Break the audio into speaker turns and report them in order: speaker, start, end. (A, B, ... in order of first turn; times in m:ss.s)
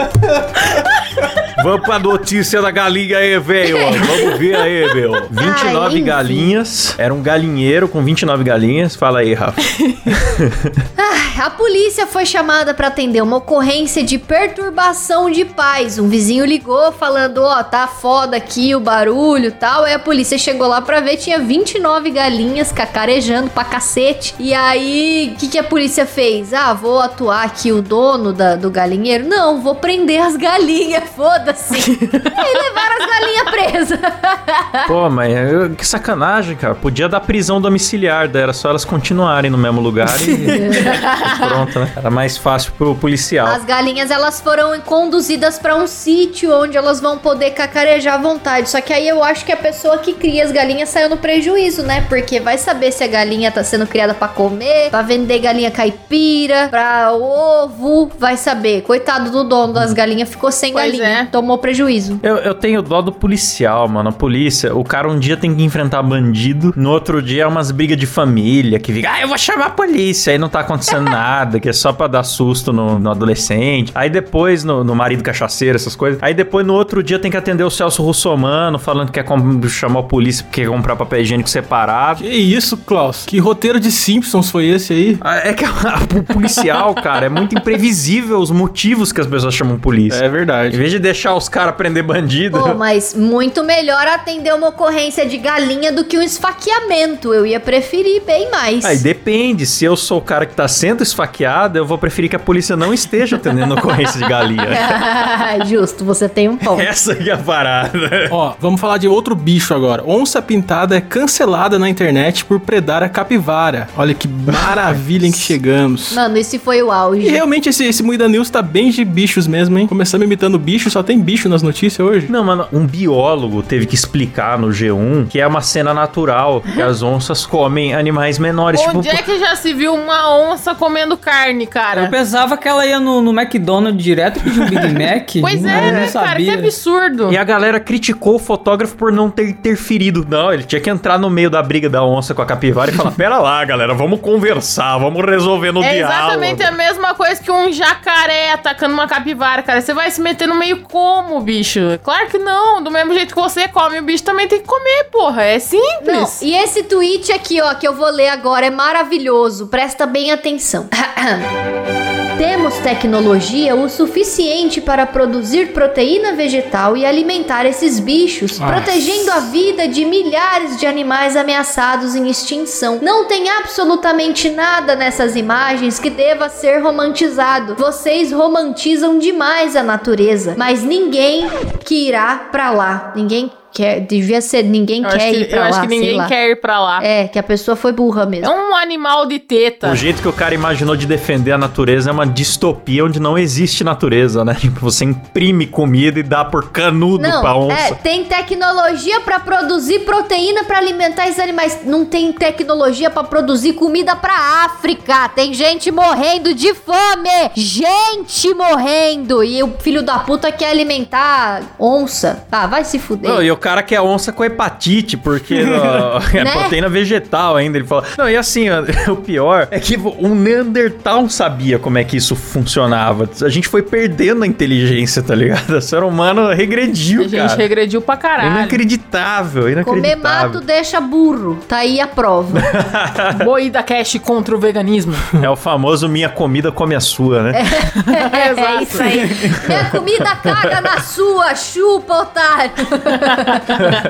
0:01.6-0:10.7 A
0:03.6-0:04.3 B
0:05.4-0:06.5 B
0:11.0-0:34.9 B
0:34.8-0:43.6 A
0:40.6-0:40.9 B
0:40.7-0:41.3 C
0:43.4-1:02.2 B
0:59.7-1:00.0 A
1:00.7-1:01.3 C
1:02.2-1:22.2 A
1:22.2-1:25.2 D
1:25.2-1:32.8 A
1:30.1-1:30.8 D
1:32.5-1:39.0 B
1:38.8-1:45.0 A
1:44.7-1:46.9 B
1:46.6-1:48.3 A
1:48.3-1:56.2 D
1:54.5-1:55.5 A
1:56.1-1:57.4 B
1:57.2-2:02.3 D
2:02.3-2:09.2 A
2:08.7-2:12.2 C
2:11.9-2:16.7 E
2:14.4-2:15.0 D
2:15.4-2:17.4 C
2:15.7-2:16.1 A
2:17.3-2:26.7 A
2:25.8-2:36.4 C
2:36.0-2:41.5 B
2:42.4-3:06.3 B
2:48.6-2:49.2 D
3:05.0-3:07.0 C
3:07.0-3:08.5 B
3:08.4-3:10.0 C
3:09.8-3:18.0 A
3:17.2-3:33.4 B
3:33.2-3:47.6 A
3:36.4-3:36.8 B
3:47.2-3:48.8 C
3:48.4-3:50.6 A
3:49.8-3:52.7 B
3:52.5-3:53.5 A
3:53.3-3:55.3 C
3:55.4-3:58.1 A
3:57.5-4:03.6 B
3:58.3-3:59.5 C
3:59.4-4:00.6 A